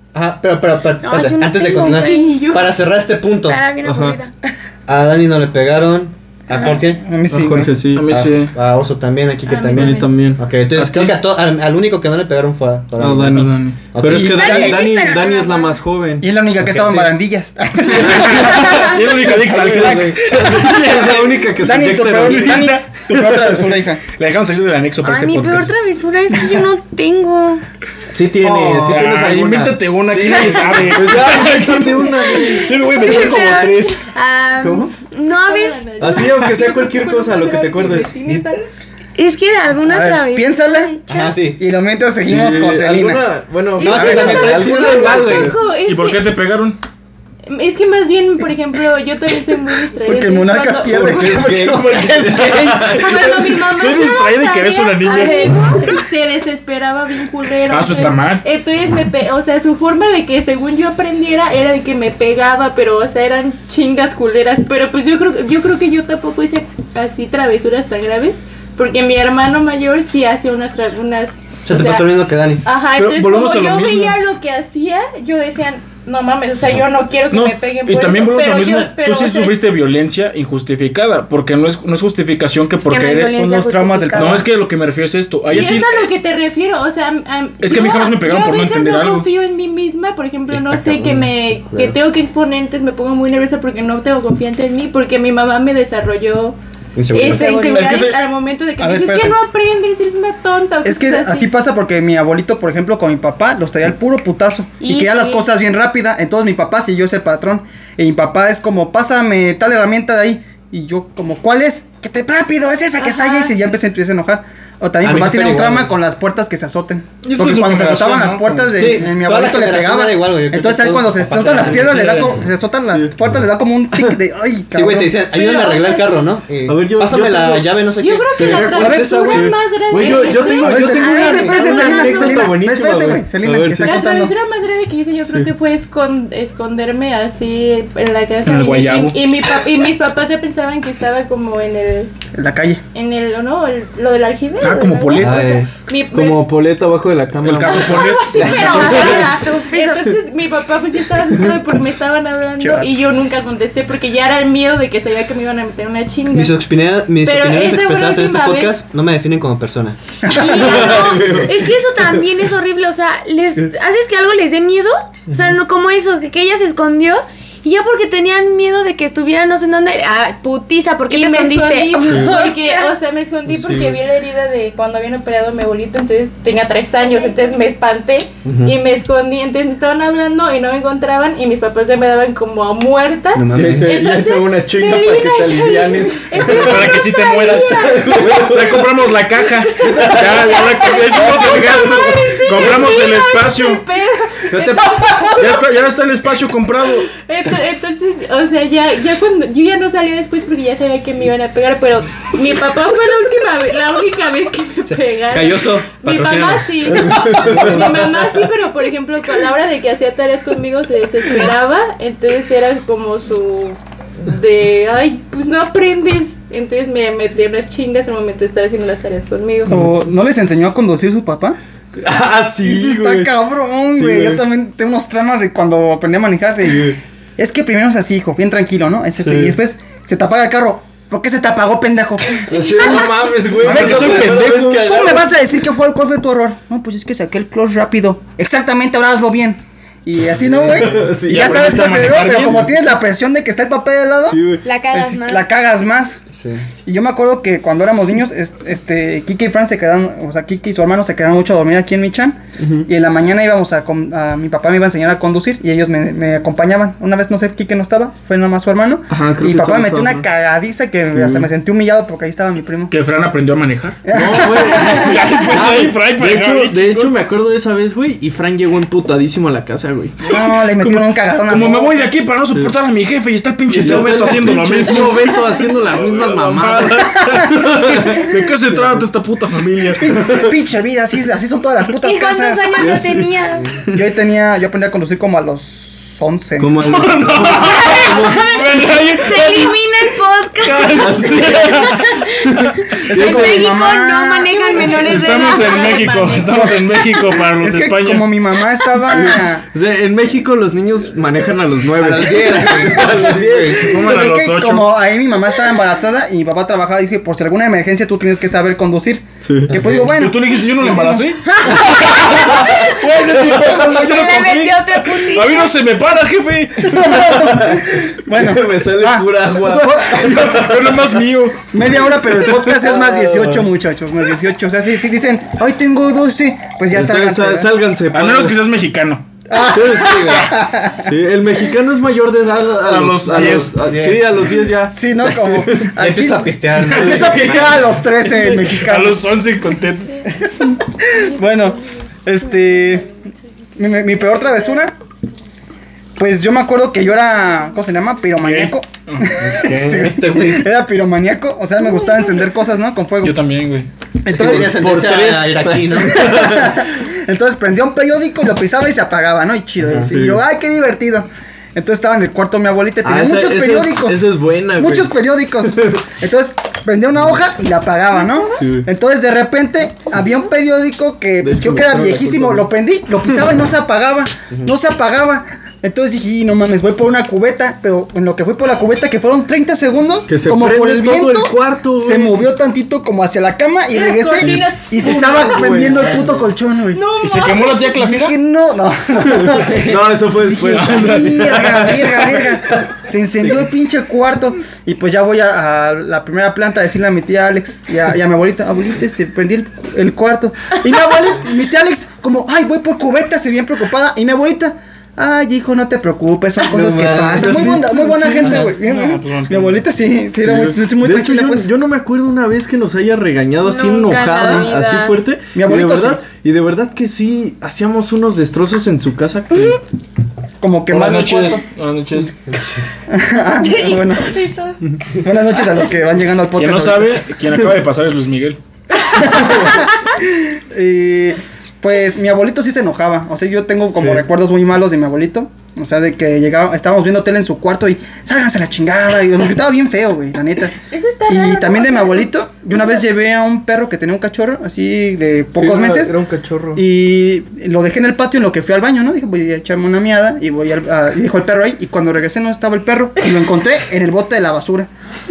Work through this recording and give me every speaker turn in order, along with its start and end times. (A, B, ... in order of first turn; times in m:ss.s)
0:00.1-0:03.6 A
0:01.0-0:02.4 B
0:01.8-0:02.7 C
0:03.4-0:04.5 B
0:03.8-0:04.2 D
0:04.9-0:07.0 A
0:06.6-0:07.7 E
0:07.3-0:08.1 D
0:07.9-0:08.5 F
0:08.1-0:14.4 A
0:09.4-0:10.2 C
0:09.7-0:10.4 D
0:10.8-0:11.1 F
0:13.0-0:17.1 D
0:13.3-0:13.8 F
0:14.2-0:14.8 E
0:14.2-0:15.8 B
0:16.2-0:19.0 E
0:16.7-0:17.0 A
0:17.9-0:23.6 D
0:17.9-0:21.0 F
0:21.6-0:24.0 E
0:22.2-0:23.5 F
0:24.1-0:25.7 F
0:25.0-0:27.6 B
0:28.1-0:32.8 D
0:28.4-0:34.0 F
0:32.1-0:35.8 B
0:34.6-0:34.9 D
0:35.3-0:38.6 C
0:36.0-0:38.1 D
0:39.2-0:41.4 B
0:39.8-0:40.9 E
0:41.1-0:41.6 A
0:41.5-0:43.3 E
0:42.2-0:45.6 D
0:43.8-0:46.3 C
0:43.8-0:45.5 A
0:45.8-0:46.8 F
0:47.5-0:51.5 C
0:50.0-0:51.9 E
0:51.0-0:53.0 D
0:51.3-0:52.8 A
0:51.6-0:55.5 F
0:52.9-1:12.1 C
0:55.0-0:56.0 B
0:57.7-0:58.4 F
1:11.6-1:12.6 A
1:12.6-1:19.6 C
1:13.0-1:14.2 F
1:17.3-1:26.1 F
1:22.8-1:24.4 B
1:23.5-1:24.4 E
1:25.5-1:36.6 C
1:27.6-1:29.2 F
1:30.5-1:32.0 A
1:37.0-1:37.5 A
1:37.1-1:41.5 C
1:37.2-1:37.8 B
1:37.6-1:38.2 F
1:38.8-1:39.4 E
1:40.8-2:05.2 E
1:44.8-1:45.4 B
1:53.2-1:53.4 C
1:55.0-1:55.9 A
1:57.2-1:59.1 F
1:58.7-2:02.3 A
2:01.4-2:02.3 D
2:02.9-2:03.1 D
2:03.9-2:04.2 D
2:04.7-2:10.5 A
2:05.2-2:06.3 C
2:06.6-2:07.8 D
2:08.0-2:11.6 C
2:08.3-2:14.0 D
2:08.7-2:09.3 E
2:10.6-2:14.3 E
2:10.9-2:12.5 B
2:13.8-2:22.1 C
2:18.4-2:19.2 F
2:22.3-2:22.8 E
2:22.9-2:26.5 C
2:24.6-2:25.5 F
2:25.2-2:25.7 A
2:26.1-2:29.2 D
2:27.4-2:29.2 F
2:27.6-2:36.6 C
2:28.4-2:30.1 B
2:32.6-2:32.9 E
2:36.3-2:40.0 A
2:37.2-2:38.8 C
2:40.3-2:52.9 B
2:40.5-2:41.3 C
2:40.5-2:42.2 D
2:51.1-3:08.6 C
2:52.1-2:52.4 D
2:53.5-2:53.9 D
2:57.0-2:57.4 B
2:58.4-2:58.8 A
3:03.3-3:04.0 A
3:03.5-3:06.9 D
3:06.4-3:13.8 F
3:08.0-3:08.9 D
3:09.5-3:15.6 C
3:09.9-3:10.2 D
3:11.5-3:12.0 D
3:14.5-3:15.4 A
3:15.4-3:17.1 F
3:17.0-3:39.8 C
3:24.9-3:27.9 A
3:27.0-3:28.2 D
3:39.7-3:41.6 E
3:42.0-3:43.3 D
3:42.6-3:52.8 E
3:43.9-3:44.4 D
3:46.6-3:47.0 D
3:49.2-3:49.5 D
3:52.4-3:55.3 D
3:52.7-3:53.6 C
3:53.6-3:54.8 F
3:53.6-4:06.2 E
4:00.4-4:01.1 A
4:00.6-4:02.6 D
4:01.3-4:02.7 F
4:04.2-4:04.6 D
4:04.6-4:05.5 B
4:06.3-4:06.6 A
4:06.8-4:22.9 E
4:12.6-4:12.9 D
4:19.1-4:20.2 D
4:21.1-4:21.5 D
4:22.9-4:24.0 F
4:24.1-4:25.7 E
4:24.1-4:30.3 D
4:24.6-4:27.1 F
4:30.2-4:32.1 E
4:30.8-4:40.0 F
4:33.7-4:40.6 D
4:40.0-4:42.7 E
4:42.0-4:43.7 B
4:42.8-4:43.3 D
4:43.9-4:46.8 E
4:46.6-4:48.5 D
4:46.9-4:49.7 F
4:47.6-4:57.0 B
4:50.6-4:52.2 F
4:50.9-4:53.7 D
4:53.1-4:55.2 E
4:54.9-4:58.3 F
4:57.5-4:59.6 E
4:59.0-5:04.0 D
5:02.0-5:03.9 A
5:03.8-5:05.0 F
5:03.9-5:11.2 E
5:09.4-5:10.1 D
5:10.0-5:17.0 F
5:11.5-5:15.7 B
5:12.2-5:14.5 E
5:13.3-5:13.9 D
5:16.8-5:20.1 E
5:16.9-5:21.1 D
5:19.8-5:21.6 F
5:21.7-5:27.7 E
5:22.3-5:23.7 D
5:26.9-5:28.6 D
5:28.1-5:29.2 F
5:29.5-5:31.1 E
5:29.7-5:35.9 D
5:29.9-5:30.4 A
5:32.8-5:33.8 F
5:33.3-5:34.5 A
5:34.9-5:39.2 E
5:36.0-5:38.0 A
5:36.9-5:37.8 D
5:38.3-5:40.2 F
5:40.4-5:43.1 E
5:43.8-5:44.9 E
5:46.2-5:53.4 E
5:48.4-5:49.3 F
5:49.4-5:50.7 A
5:53.2-5:53.9 F
5:54.2-5:54.8 E
5:54.3-5:56.5 A
5:54.3-5:56.9 D
5:56.1-6:27.0 E
5:59.8-6:00.1 A
6:00.0-6:00.4 D
6:03.0-6:06.0 D
6:08.6-6:08.9 D
6:11.4-6:12.7 D
6:20.3-6:22.4 D
6:23.9-6:26.3 C
6:25.2-6:26.3 D
6:26.9-6:28.0 C
6:27.2-6:28.4 F
6:28.0-6:51.7 E
6:29.2-6:33.7 D
6:30.8-6:31.1 F
6:46.7-6:48.7 D
6:46.7-6:47.9 A
6:48.4-6:49.8 F
6:50.4-6:59.8 D
6:53.6-6:55.2 B
6:54.4-6:54.7 E
6:55.5-6:56.2 E
7:00.6-7:01.6 E
7:00.9-7:02.3 F
7:03.1-7:04.4 E
7:03.6-7:04.8 C
7:05.1-7:07.2 E
7:06.6-7:08.6 F
7:09.1-7:20.8 E
7:13.9-7:14.2 A
7:20.9-7:23.0 C
7:21.3-7:26.1 E
7:25.5-7:26.8 D
7:26.7-7:34.9 E